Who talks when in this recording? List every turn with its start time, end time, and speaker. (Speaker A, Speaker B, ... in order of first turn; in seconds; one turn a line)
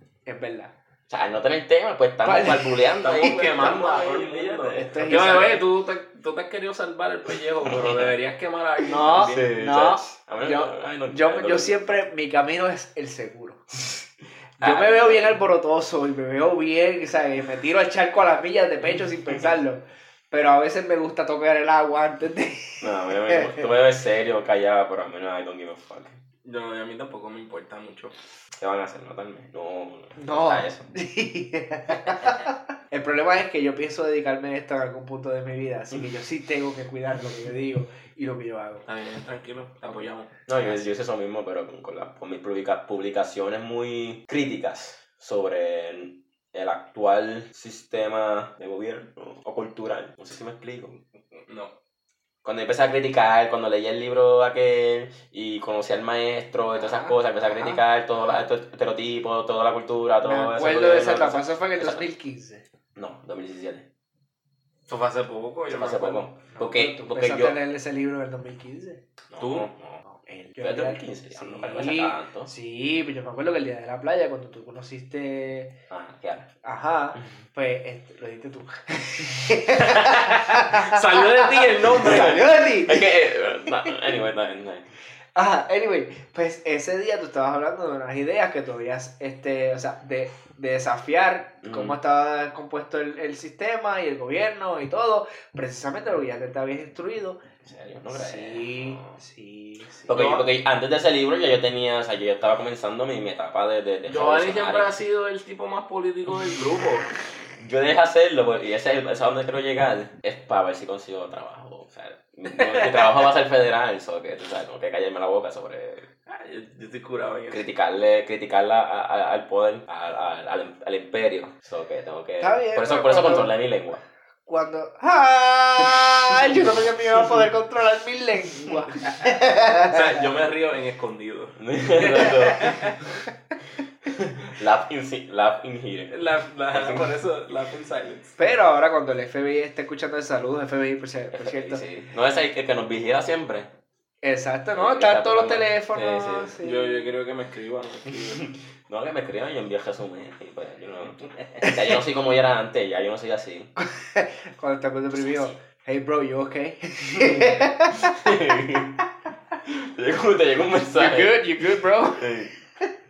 Speaker A: 0.2-0.7
Speaker B: 1.1-5.6
Speaker A: 2.2-4.0
Speaker C: 3.0-9.5
Speaker A: 4.6-5.6
Speaker B: 7.6-8.1
Speaker A: 8.8-13.6
Speaker B: 9.1-12.0
Speaker A: 14.6-23.6
Speaker C: 14.6-15.0
Speaker B: 14.9-15.3
Speaker B: 22.8-26.2
Speaker C: 26.4-28.1
Speaker B: 28.6-30.9
Speaker A: 30.2-38.8
Speaker C: 38.9-40.3
Speaker B: 40.5-51.0
Speaker C: 51.5-51.7
Speaker B: 52.4-62.1
Speaker A: 56.8-57.8
Speaker A: 60.2-62.6
Speaker B: 63.0-63.9
Speaker C: 64.9-66.3
Speaker B: 65.7-67.5
Speaker A: 66.5-69.0
Speaker B: 69.3-70.0
Speaker C: 69.4-69.7
Speaker A: 70.0-75.8
Speaker B: 70.6-72.5
Speaker B: 75.9-76.5
Speaker A: 76.6-83.1
Speaker C: 79.8-82.4
Speaker B: 81.9-84.9
Speaker A: 85.3-97.4
Speaker B: 91.6-92.0
Speaker B: 97.6-99.1
Speaker A: 98.1-100.2
Speaker B: 100.1-104.9
Speaker C: 100.1-100.5
Speaker C: 104.1-107.0
Speaker B: 107.6-116.1
Speaker C: 112.5-113.1
Speaker C: 116.3-117.6
Speaker B: 117.5-124.0
Speaker A: 122.4-123.5
Speaker A: 124.5-130.2
Speaker B: 126.3-126.8
Speaker C: 129.8-133.1
Speaker B: 131.6-132.9
Speaker B: 134.1-137.1
Speaker C: 136.1-138.3
Speaker A: 138.4-141.8
Speaker B: 141.3-143.7
Speaker A: 144.2-147.1
Speaker B: 144.8-146.5
Speaker C: 146.6-148.4
Speaker B: 148.1-153.7
Speaker A: 153.8-158.0
Speaker B: 157.2-159.0
Speaker B: 159.6-161.4
Speaker A: 160.9-162.3
Speaker B: 162.2-162.5